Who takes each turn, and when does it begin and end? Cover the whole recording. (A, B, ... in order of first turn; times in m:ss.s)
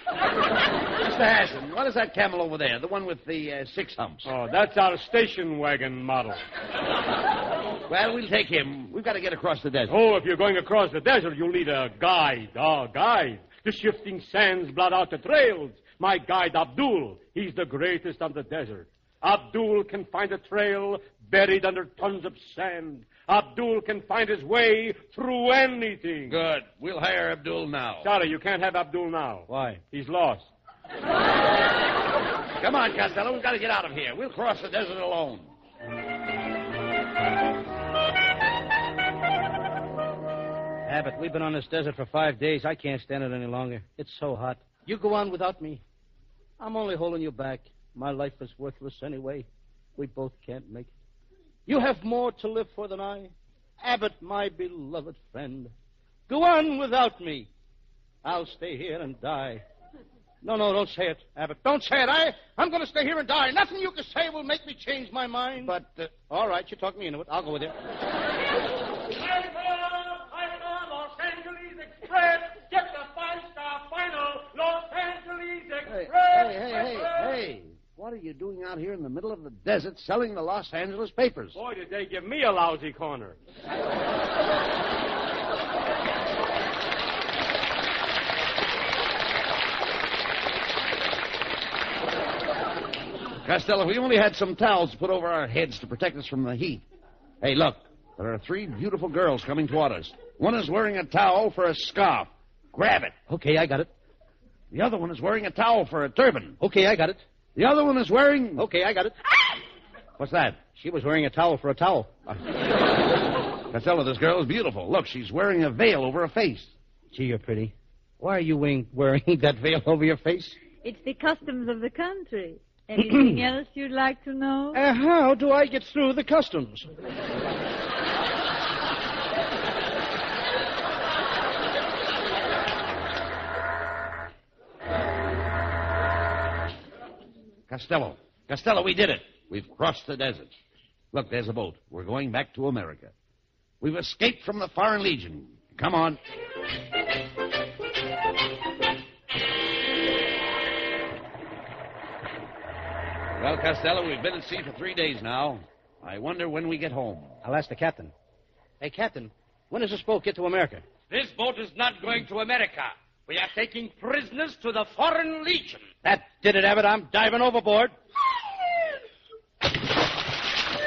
0:01.0-0:04.3 A
0:04.2-0:06.4 B
0:07.9-0:09.9 A
0:09.9-0:26.4 B
0:26.3-0:28.1 A
0:28.0-0:30.5 B
0:29.5-0:29.8 C
0:32.6-0:35.5 A
0:40.9-0:45.8 C
0:46.6-0:50.9 C
0:51.7-0:55.7 C
0:56.3-0:57.5 C
0:58.2-0:59.6 C
1:00.4-1:07.8 C
1:05.6-1:06.1 A
1:09.1-1:17.4 B
1:15.9-1:21.6 A
1:21.6-1:23.4 B
1:33.4-1:36.8 A
1:37.4-1:43.2 A
1:43.3-1:43.9 C
1:44.7-1:46.6 A
1:46.6-1:47.2 C
1:47.6-1:48.6 A
1:48.6-1:49.2 C
1:50.2-1:50.6 A
1:50.8-1:52.1 C
1:53.7-1:56.7 A
1:57.1-2:00.6 C
2:00.8-2:04.8 D
2:03.0-2:03.4 C
2:04.7-2:06.9 C
2:17.7-2:20.5 A
2:21.1-2:23.1 A
2:23.8-2:26.2 A
2:33.4-2:37.4 A
2:37.4-2:38.1 C
2:38.8-2:40.8 C
2:41.1-2:45.9 E
2:46.0-2:47.9 C